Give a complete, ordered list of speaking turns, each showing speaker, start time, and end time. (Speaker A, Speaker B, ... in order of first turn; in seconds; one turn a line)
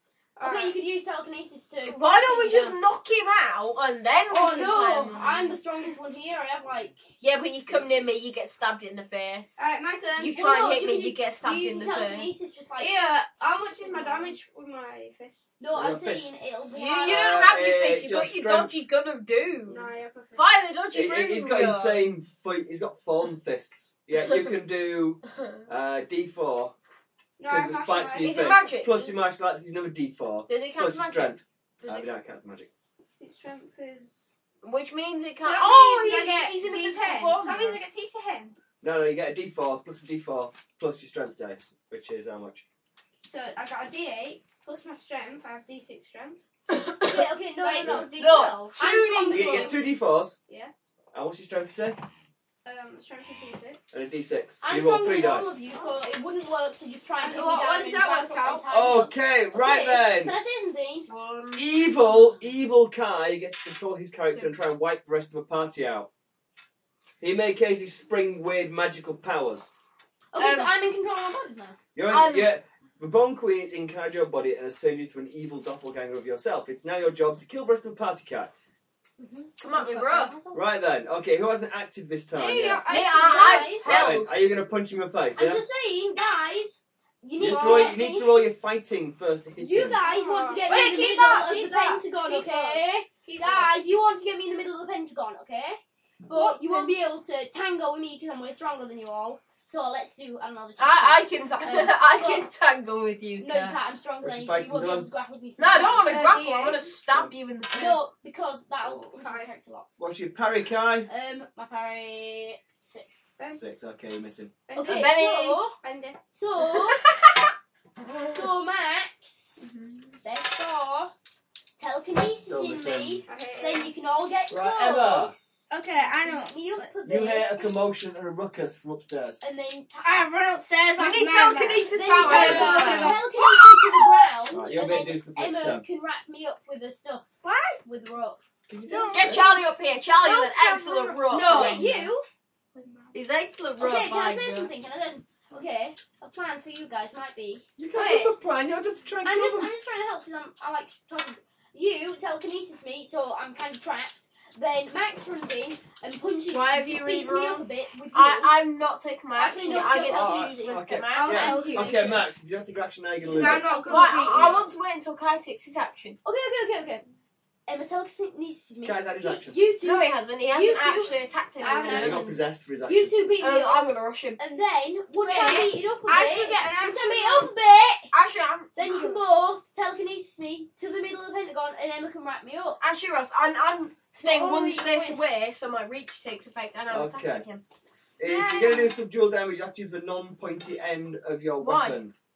Speaker A: 0.4-0.8
Speaker B: 0.4-2.8
Speaker C: 1.9-5.6
Speaker B: 4.3-7.0
Speaker C: 7.2-9.6
Speaker A: 9.6-10.4
Speaker C: 10.2-12.3
Speaker B: 10.2-13.0
Speaker A: 12.8-15.6
Speaker B: 13.9-14.3
Speaker B: 15.6-17.3
Speaker D: 15.7-18.8
Speaker C: 16.7-22.1
Speaker A: 19.7-20.5
Speaker D: 20.9-26.7
Speaker A: 27.4-28.4
Speaker D: 27.5-32.7
Speaker C: 28.2-29.2
Speaker C: 30.5-32.1
Speaker A: 33.2-34.4
Speaker C: 34.6-37.8
Speaker A: 35.4-38.5
Speaker E: 37.3-38.3
Speaker D: 38.8-42.6
Speaker A: 43.2-46.4
Speaker C: 46.7-47.3
Speaker B: 47.0-49.8
Speaker A: 47.6-48.5
Speaker C: 48.0-49.8
Speaker D: 49.3-50.4
Speaker A: 50.5-50.7
Speaker D: 51.1-52.0
Speaker A: 52.6-53.8
Speaker D: 53.9-55.6
Speaker B: 54.6-61.1
Speaker A: 57.2-58.7
Speaker D: 58.7-60.4
Speaker C: 61.1-62.4
Speaker D: 61.5-66.1
Speaker D: 67.2-69.7
Speaker B: 70.3-71.8
Speaker C: 70.4-70.7
Speaker D: 72.0-78.5
Speaker C: 72.1-72.5
Speaker B: 79.2-80.7
Speaker C: 79.6-80.3
Speaker D: 80.5-82.8
Speaker B: 82.3-84.0
Speaker A: 82.6-83.7
Speaker C: 82.9-84.4
Speaker D: 83.8-85.7
Speaker B: 85.4-88.3
Speaker D: 87.4-90.0
Speaker A: 87.5-87.9
Speaker B: 89.6-102.5
Speaker A: 90.0-93.7
Speaker A: 96.4-96.8
Speaker C: 100.8-103.8
Speaker B: 103.4-106.8
Speaker D: 104.2-105.1
Speaker C: 105.6-108.0
Speaker A: 106.1-106.7
Speaker B: 107.7-110.0
Speaker A: 109.0-109.5
Speaker D: 110.0-111.1
Speaker B: 111.1-113.2
Speaker D: 113.5-114.6
Speaker A: 114.7-116.2
Speaker B: 114.7-115.7
Speaker C: 114.8-115.7
Speaker B: 116.3-117.1
Speaker C: 116.7-118.5
Speaker B: 118.3-119.6
Speaker C: 119.6-120.1
Speaker B: 120.2-121.1
Speaker B: 121.8-125.3
Speaker D: 122.5-123.2
Speaker A: 123.3-123.9
Speaker D: 124.5-125.7
Speaker E: 125.7-126.9
Speaker B: 126.0-127.8
Speaker D: 127.0-129.4
Speaker B: 129.4-130.1
Speaker E: 130.0-133.8
Speaker C: 131.0-133.2
Speaker B: 131.9-137.3
Speaker D: 132.2-132.8
Speaker A: 132.7-133.0
Speaker D: 134.5-135.8
Speaker E: 137.4-137.8
Speaker B: 137.8-138.4
Speaker D: 138.7-139.8
Speaker E: 138.9-139.5
Speaker C: 139.1-141.9
Speaker E: 140.2-142.0
Speaker B: 141.3-142.2
Speaker E: 142.8-143.2
Speaker C: 143.1-144.7
Speaker B: 143.8-148.3
Speaker D: 147.8-149.7
Speaker B: 149.2-158.6
Speaker C: 156.5-161.9
Speaker B: 159.3-162.2
Speaker D: 159.7-163.7
Speaker E: 161.2-162.2
Speaker B: 163.3-164.7
Speaker E: 163.3-164.6
Speaker C: 163.9-166.2
Speaker B: 166.2-167.1
Speaker B: 167.7-178.1
Speaker D: 168.8-169.6
Speaker C: 169.8-172.4
Speaker D: 171.9-173.1
Speaker C: 173.4-174.4
Speaker E: 175.2-177.5
Speaker C: 178.1-179.2
Speaker B: 178.8-182.8
Speaker C: 182.8-187.6
Speaker B: 184.2-185.2
Speaker D: 186.9-187.4
Speaker D: 188.2-192.1
Speaker E: 188.2-189.0
Speaker C: 191.6-192.0